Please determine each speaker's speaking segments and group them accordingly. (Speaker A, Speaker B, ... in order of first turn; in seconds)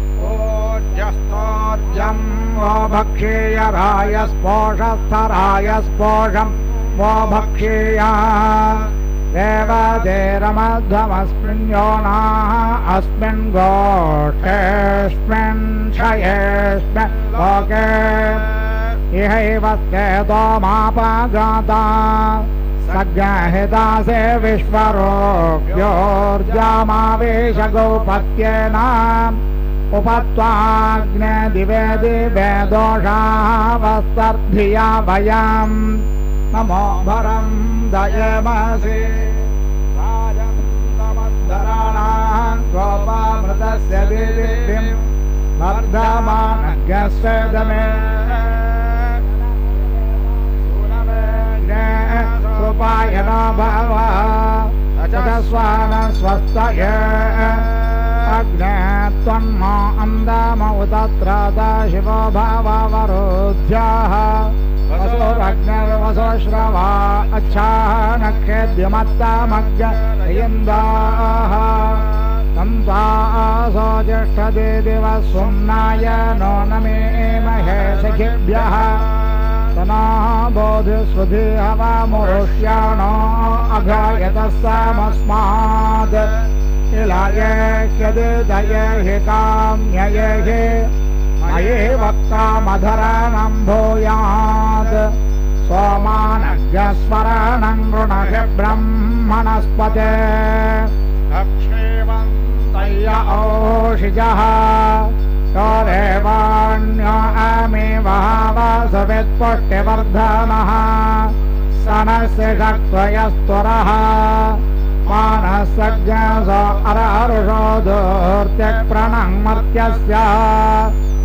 Speaker A: 0.2-18.5, 19.1-29.4, 29.9-39.5, 41.2-45.0, 45.6-48.5, 50.6-79.1, 79.8-86.3, 86.9-100.9, 101.6-121.0